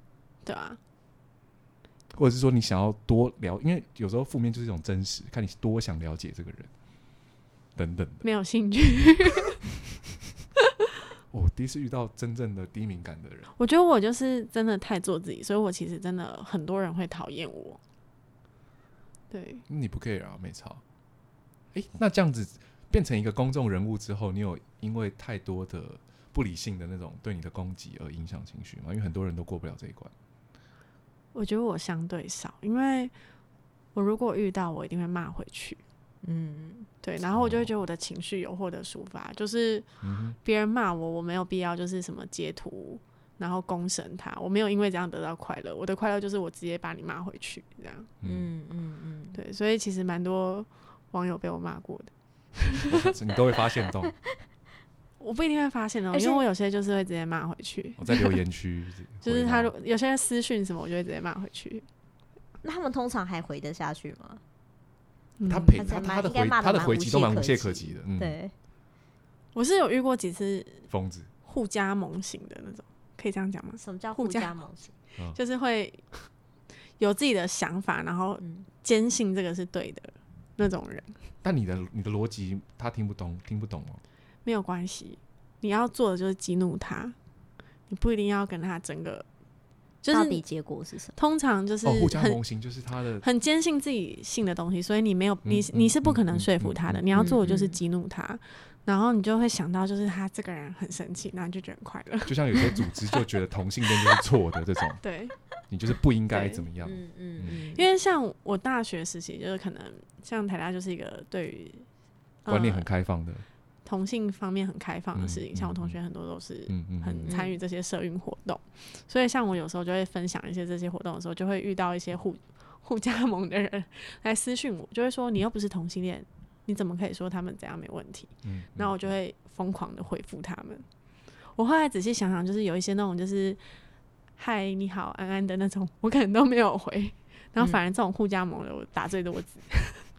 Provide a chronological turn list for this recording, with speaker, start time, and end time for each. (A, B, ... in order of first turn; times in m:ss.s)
0:00.4-0:00.8 A
0:02.1-0:06.7 B
0:07.8-0:08.2 B
0:08.2-0:09.6 A
0:11.3-0:13.5 B
0:13.6-0:17.8 A
0:19.3-0:19.6 A
0:19.7-0:20.8 B
0:21.7-0:30.1 B
0:31.3-0:33.1 A
0:33.9-0:35.8 A
0:36.2-0:36.9 C
0:37.0-0:39.9 A
0:37.2-0:37.7 B
0:40.0-0:40.4 B
0:40.4-0:48.1 A
0:48.2-0:48.5 B
0:48.2-0:49.4 C
0:49.3-0:53.1 A
0:52.9-0:54.1 B
0:55.2-0:58.4 A
0:56.1-0:56.4 C
0:58.0-0:59.7 B
0:59.2-1:01.8 A
1:02.6-1:04.4 C
1:05.4-1:05.9 A
1:05.5-1:08.4 B
1:05.7-1:08.5 C
1:09.5-1:10.9 A
1:10.9-1:11.3 B
1:11.4-1:14.5 A
1:13.8-1:14.9 C
1:15.3-1:16.2 A
1:17.0-1:21.2 A
1:18.4-1:18.7 C
1:21.4-1:24.0 B
1:24.4-1:27.1 A
1:27.9-1:29.2 A
1:30.0-1:30.4 A
1:30.1-1:31.1 C
1:31.2-1:32.4 A
1:31.8-1:33.2 B
1:33.2-1:42.4 A
1:35.4-1:37.5 B
1:37.1-1:37.8 C
1:42.2-1:45.0 B
1:45.0-1:45.4 A
1:45.7-1:47.6 B
1:46.3-1:46.6 A
1:46.8-1:47.9 C
1:47.7-1:51.8 A
1:52.4-1:52.9 A
1:52.5-1:53.4 B
1:53.8-2:10.8 A
1:55.1-1:56.0 B
1:56.7-1:57.3 B
1:57.2-1:57.6 C
2:08.4-2:09.0 B
2:11.6-2:13.6 A
2:14.4-2:20.0 A